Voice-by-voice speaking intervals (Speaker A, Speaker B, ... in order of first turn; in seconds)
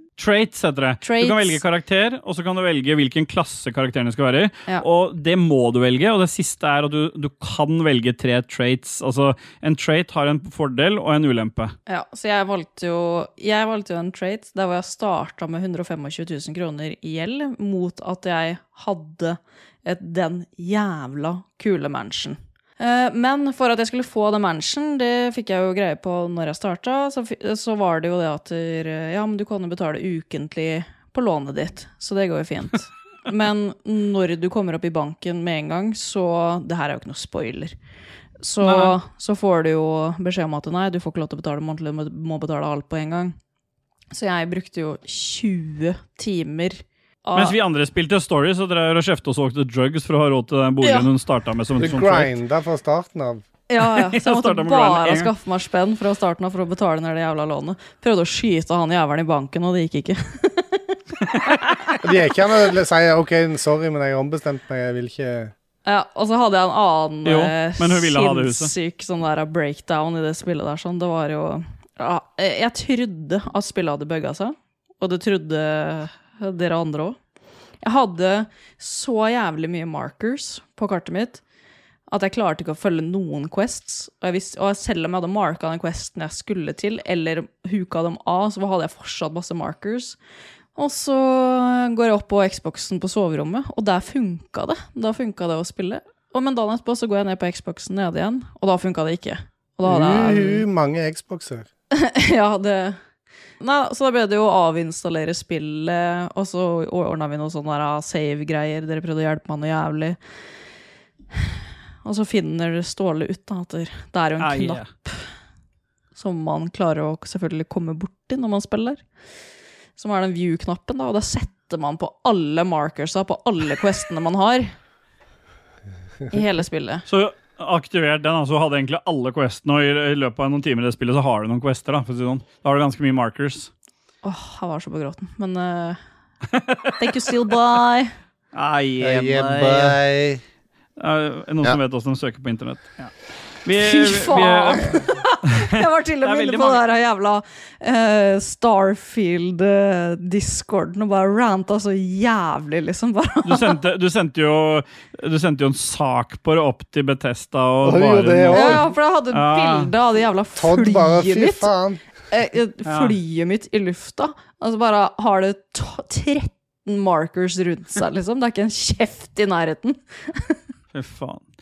Speaker A: 0.2-11.7, 38.6-39.0, 47.3-52.3, 53.8-55.3, 61.3-61.9, 67.2-68.7, 114.4-114.9, 127.1-133.7, 136.5-137.1, 138.5-140.0, 141.0-143.1, 143.6-145.0, 146.2-146.8, 153.4-159.9, 162.8-163.2, 170.9-171.4
Speaker B: 1.0-1.6, 11.9-37.7, 38.4-43.3, 44.1-47.5, 50.8-51.1, 53.7-61.0, 61.5-61.9, 65.8-77.2, 77.8-81.4, 82.1-90.2, 90.7-100.6, 101.9-103.0, 103.6-110.2, 112.0-115.2, 116.1-119.0, 120.0-124.7, 126.3-127.0, 134.2-136.0, 137.0-138.1, 143.8-153.8, 158.5-161.7, 162.3-170.6
Speaker C: 51.8-53.4, 62.0-65.5, 99.8-101.7, 139.0-140.4, 157.8-158.8, 160.6-162.0